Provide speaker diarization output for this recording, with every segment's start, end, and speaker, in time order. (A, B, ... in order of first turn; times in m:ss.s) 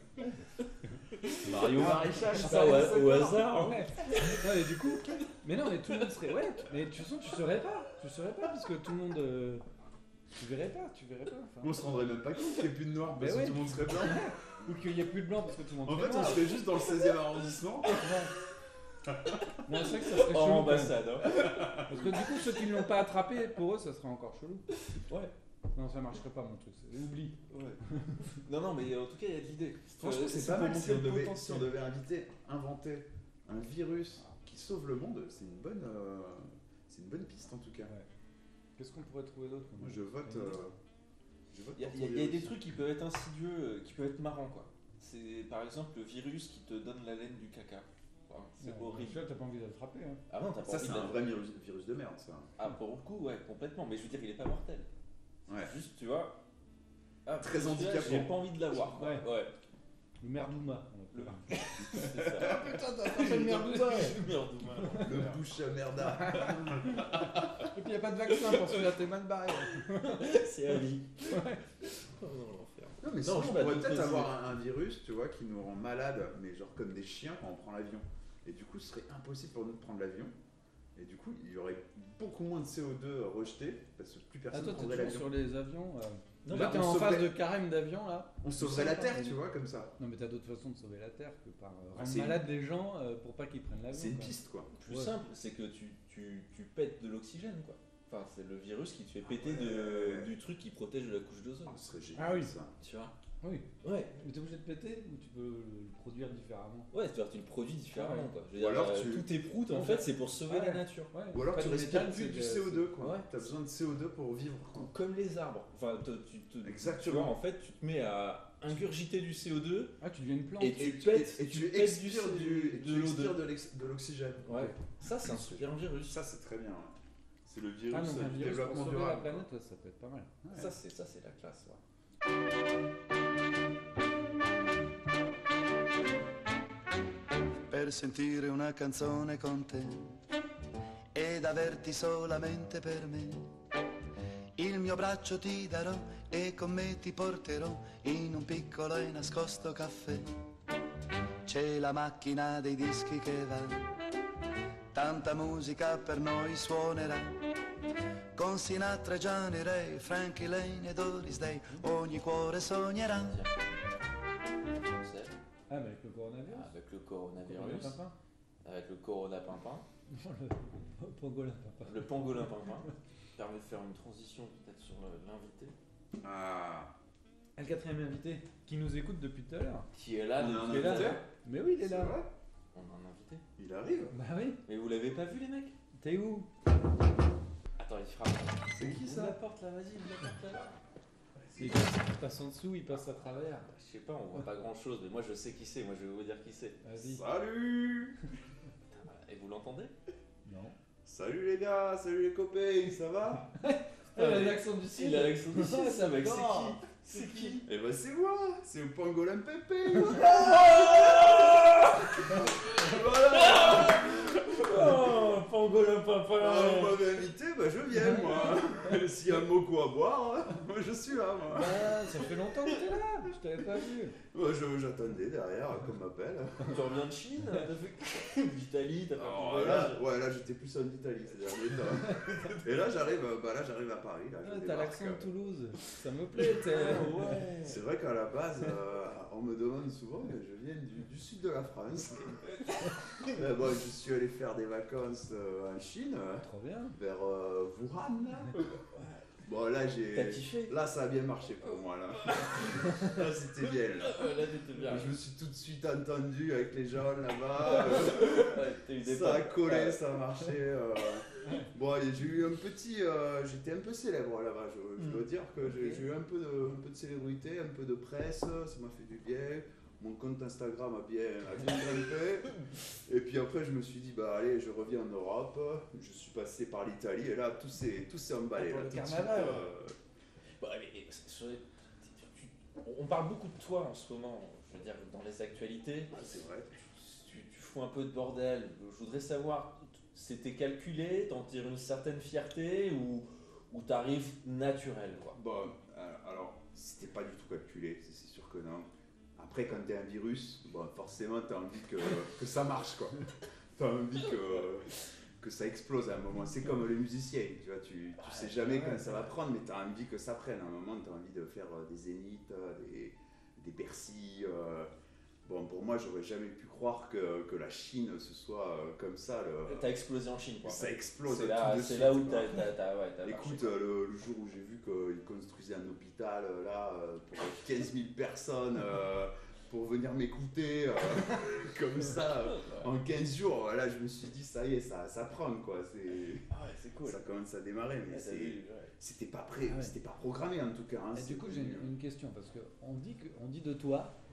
0:01.2-0:04.4 A
0:01.4-0:03.7 B
0:02.3-0:09.6 C
0:10.4-0:11.8 C
0:11.6-0:14.3 B
0:13.2-0:16.6 C
0:15.8-0:18.1 B
0:17.9-0:18.3 C
0:19.6-0:24.7 C
0:19.8-0:22.4 A
0:25.0-0:25.3 A
0:25.8-0:27.4 C
0:27.5-0:31.8 A
0:28.0-0:28.2 C
0:30.0-0:37.9 B
0:38.8-0:40.6 C
0:39.8-0:40.8 B
0:41.5-0:42.6 B
0:41.8-0:49.2 A
0:48.6-0:50.2 C
0:50.3-0:51.3 A
0:50.7-0:52.5 B
0:52.6-0:54.9 A
0:55.5-0:55.7 B
0:55.6-0:56.4 A
0:57.3-0:59.5 A
0:57.4-0:58.4 B
0:59.0-0:59.3 C
1:00.2-1:04.2 C
1:01.1-1:05.4 A
1:02.4-1:04.2 B
1:04.8-1:05.2 C
1:05.0-1:07.3 B
1:06.2-1:10.3 C
1:08.3-1:09.0 A
1:09.8-1:14.3 A
1:11.2-1:11.6 C
1:13.0-1:20.4 B
1:21.0-1:25.4 B
1:24.5-1:29.4 C
1:26.4-1:27.2 A
1:26.5-1:27.4 B
1:28.4-1:29.9 B
1:30.0-1:34.3 C
1:32.0-1:32.5 B
1:33.9-1:34.7 B
1:34.8-1:41.8 A
1:34.9-1:35.1 C
1:39.2-1:40.3 B
1:41.7-1:42.8 B
1:42.2-1:42.5 C
1:42.8-1:43.1 A
1:43.4-1:46.9 C
1:43.8-1:44.2 A
1:46.9-1:51.1 A
1:47.9-1:48.3 C
1:48.6-1:49.3 B
1:49.7-1:52.9 C
1:51.3-1:54.9 B
1:53.0-1:53.3 A
1:54.7-2:00.0 A
1:56.6-1:57.4 B
2:00.0-2:00.9 C
2:00.6-2:03.4 A
2:00.8-2:09.4 B
2:04.5-2:06.2 A
2:07.9-2:10.3 C
2:10.4-2:10.7 B
2:10.5-2:11.8 A
2:17.7-2:20.1 D
2:21.1-2:23.5 D
2:24.6-2:30.3 D
2:31.4-2:33.9 D
2:34.9-2:37.4 D
2:38.4-2:43.4 D
2:43.1-2:43.8 A
2:44.9-2:45.4 A
2:45.7-2:46.7 C
2:46.5-2:48.0 A
2:47.4-2:48.1 C
2:48.6-2:49.9 A
2:50.1-2:52.1 C
2:51.8-2:55.8 A
2:56.2-2:56.9 B
2:57.6-2:59.9 C
2:59.9-3:01.2 A
3:00.4-3:01.2 B
3:00.6-3:02.2 C
3:01.8-3:02.3 B
3:02.7-3:03.4 A
3:03.6-3:04.2 B
3:04.1-3:04.6 C
3:04.7-3:05.8 A
3:06.0-3:06.5 C
3:07.8-3:10.8 A
3:08.7-3:09.4 B
3:11.4-3:11.9 B
3:11.6-3:13.7 C
3:13.7-3:16.8 A
3:16.8-3:17.2 C
3:17.0-3:18.2 B
3:19.0-3:19.9 A
3:20.4-3:20.8 C
3:21.0-3:23.5 B
3:23.6-3:26.4 C
3:24.2-3:27.0 A
3:26.1-3:31.4 B
3:27.0-3:27.6 C
3:30.0-3:37.2 A
3:32.3-3:35.3 B
3:36.4-3:42.0 B
3:38.0-3:38.5 C
3:41.5-3:44.2 C
3:44.3-3:46.8 B
3:46.6-3:50.0 A
3:49.2-3:55.3 B
3:54.4-3:57.4 C
3:56.4-3:57.8 A
3:57.6-4:02.4 B
4:03.2-4:08.6 B
4:06.4-4:07.0 C
4:09.4-4:14.3 B
4:10.1-4:10.8 A
4:12.2-4:13.0 A
4:14.0-4:15.2 A
4:14.8-4:40.0 B
4:17.7-4:20.1 A
4:38.6-4:39.6 C
4:40.6-4:46.1 A
4:46.1-4:46.8 B
4:47.0-4:55.4 A
4:55.3-5:14.9 B
5:08.7-5:09.0 C
5:15.4-5:19.9 B
5:19.7-5:23.8 A
5:20.6-5:22.7 B
5:23.2-5:36.5 B
5:32.4-5:32.9 A
5:36.5-5:37.2 A
5:37.0-5:41.9 B
5:38.1-5:38.9 A
5:39.7-5:40.0 C
5:41.1-5:44.1 C